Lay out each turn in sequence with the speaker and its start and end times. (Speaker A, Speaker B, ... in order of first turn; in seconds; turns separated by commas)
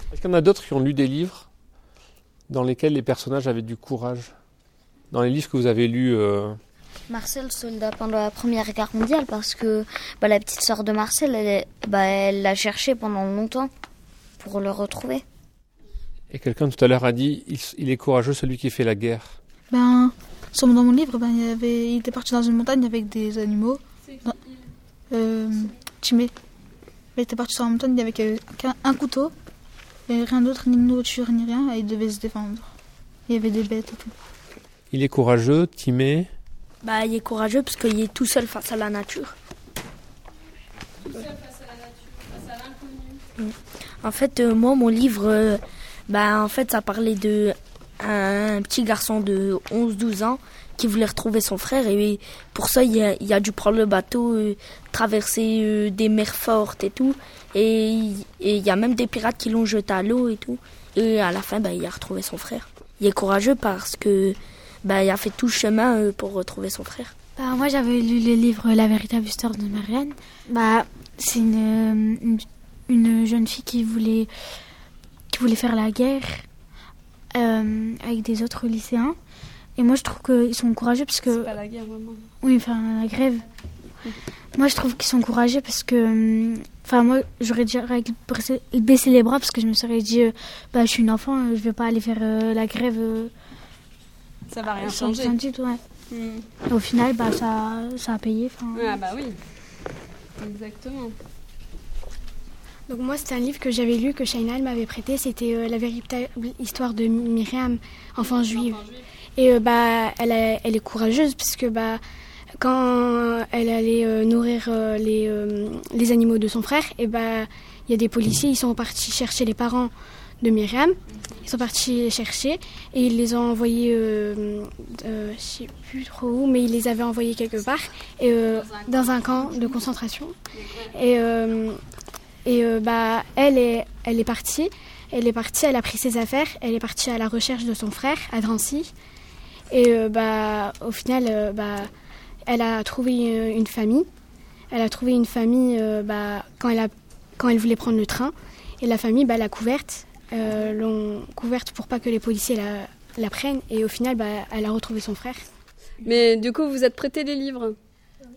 Speaker A: 0.1-1.4, Speaker B: 1.1-1.4, Speaker A: 2.5-4.3, Speaker A: 5.1-6.6, Speaker C: 7.1-13.7, Speaker C: 14.4-15.2, Speaker A: 16.3-19.3, Speaker B: 19.7-23.8, Speaker D: 24.0-24.7, Speaker B: 25.1-26.3, Speaker B: 27.1-29.3, Speaker B: 30.1-32.7, Speaker B: 33.3-34.1, Speaker A: 34.9-36.1, Speaker B: 35.5-36.3, Speaker E: 36.8-39.3, Speaker D: 41.0-43.2, Speaker E: 43.4-67.1, Speaker F: 67.3-74.3, Speaker F: 75.3-76.4, Speaker F: 77.3-79.2, Speaker F: 79.8-81.5, Speaker D: 81.2-82.2, Speaker F: 82.4-83.4, Speaker F: 84.5-93.3, Speaker D: 94.5-95.3, Speaker F: 94.8-95.8, Speaker D: 96.1-96.5, Speaker F: 96.7-99.0, Speaker D: 98.7-99.4, Speaker D: 100.4-101.1, Speaker G: 102.9-108.8, Speaker D: 108.2-109.0, Speaker G: 109.4-112.0, Speaker G: 112.6-130.3, Speaker D: 128.5-129.8, Speaker D: 130.5-130.9, Speaker G: 130.9-131.8, Speaker G: 132.4-138.9, Speaker G: 139.7-141.9, Speaker G: 142.5-144.1, Speaker G: 144.7-155.4, Speaker D: 156.0-157.8